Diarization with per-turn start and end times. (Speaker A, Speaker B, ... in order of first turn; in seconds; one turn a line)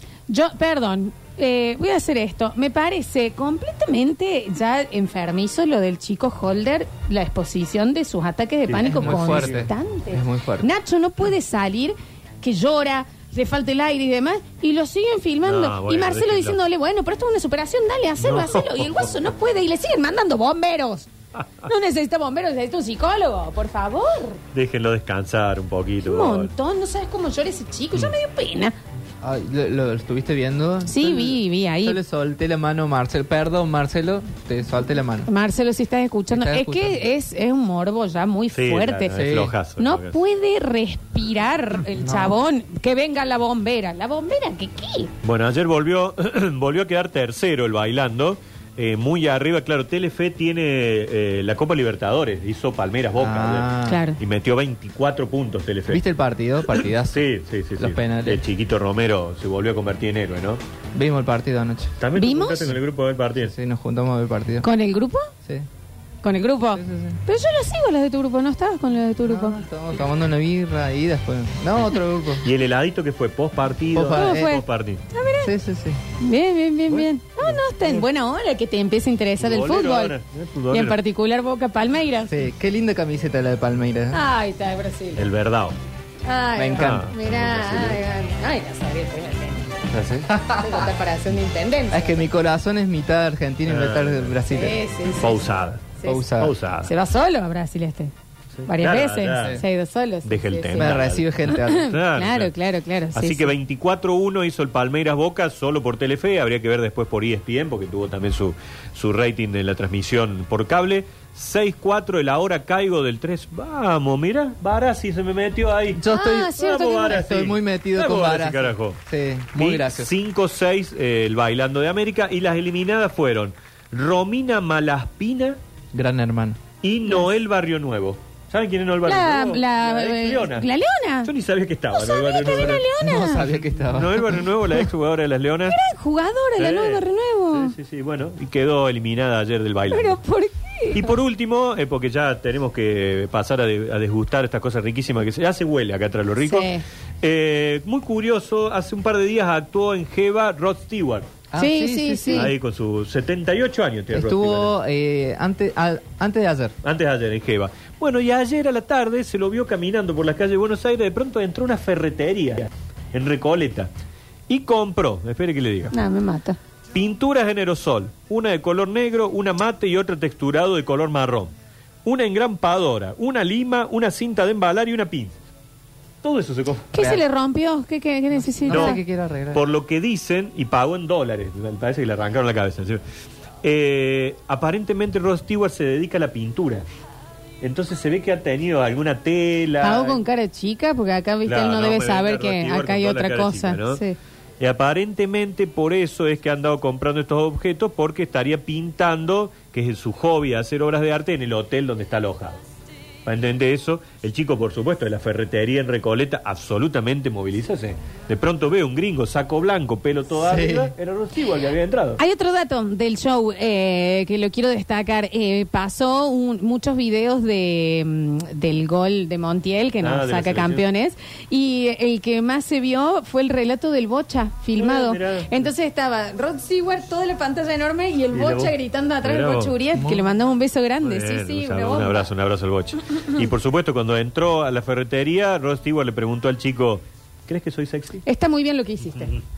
Speaker A: 0.3-21.1
Speaker B: 8.7-9.6
Speaker C: 8.8-10.7
Speaker B: 15.4-16.6
Speaker B: 18.2-18.9
Speaker A: 21.6-24.4
Speaker B: 24.5-26.5
Speaker A: 26.0-28.7
Speaker C: 29.2-35.3
Speaker A: 30.8-32.0
Speaker A: 35.3-45.1
Speaker C: 36.3-37.1
Speaker B: 38.5-40.2
Speaker C: 39.1-39.5
Speaker C: 42.0-42.4
Speaker B: 45.2-56.0
Speaker C: 53.2-54.0
Speaker A: 53.9-54.2
Speaker C: 55.9-57.2
Speaker B: 56.7-60.6
Speaker C: 57.8-58.4
Speaker C: 60.9-62.0
Speaker B: 62.0-63.5
Speaker A: 62.1-62.7
Speaker C: 63.4-64.7
Speaker A: 64.6-65.3
Speaker A: 66.2-69.6
Speaker C: 66.7-67.2
Speaker C: 69.2-72.5
Speaker B: 72.4-75.0
Speaker C: 73.9-74.6
Speaker A: 74.1-75.5
Speaker C: 75.4-76.0
Speaker A: 76.2-80.2
Speaker B: 76.9-78.0
Speaker B: 79.4-81.0
Speaker A: 80.7-82.3
Speaker C: 82.3-84.2
Speaker A: 84.1-85.2
Speaker B: 85.2-85.8
Speaker A: 86.2-89.8
Speaker C: 86.5-87.1
Speaker B: 86.7-88.0
Speaker B: 89.9-90.3
Speaker C: 90.3-90.8
Speaker A: 90.4-92.2
Speaker C: 91.9-94.8
Speaker B: 93.6-94.4
Speaker A: 94.5-96.2
Speaker B: 95.2-96.9
Speaker C: 96.0-96.5
Speaker A: 96.8-98.1
Speaker B: 98.5-99.6
Speaker A: 98.7-103.5
Speaker C: 99.3-99.6
Speaker B: 100.2-102.5
Speaker C: 100.8-101.9
Speaker B: 103.1-116.0
Speaker C: 115.9-120.1
Speaker A: 116.1-117.2
Speaker B: 116.6-119.0
Speaker B: 119.5-125.6
Speaker C: 125.9-126.6
Speaker B: 126.8-130.7
Speaker A: 129.0-131.3
Speaker B: 131.2-132.8
Speaker A: 131.9-133.6
Speaker C: 133.0-134.8
Speaker B: 133.9-135.8
Speaker A: 135.7-137.8
Speaker B: 136.6-140.2
Speaker A: 139.9-141.1
Speaker B: 140.9-146.7
Speaker A: 146.4-146.8
Speaker B: 147.2-151.3
Speaker C: 151.5-152.6
Speaker A: 151.6-152.5
Speaker B: 152.3-154.7
Speaker C: 154.1-156.7
Speaker B: 156.8-163.9
Speaker B: 164.5-165.9
Speaker A: 165.9-166.6
Speaker B: 166.9-171.5
Speaker B: 172.0-175.4
Speaker B: 176.2-176.9
Speaker A: 176.9-179.0
Speaker C: 177.0-177.2
Speaker C: 178.3-179.6
Speaker B: 178.7-179.0
Speaker B: 179.5-183.0
Speaker B: 183.6-186.8
Speaker B: 187.6-190.2
Speaker A: 189.8-194.2
Speaker B: 191.4-194.0
Speaker B: 194.6-202.6
Speaker B: 203.2-212.2
Speaker C: 210.4-210.9
Speaker A: 212.2-232.3
Speaker B: 220.0-220.8
Speaker B: 224.8-225.6
Speaker B: 228.3-229.8
Speaker C: 229.9-230.3
Speaker B: 231.0-238.2
Speaker A: 238.2-239.4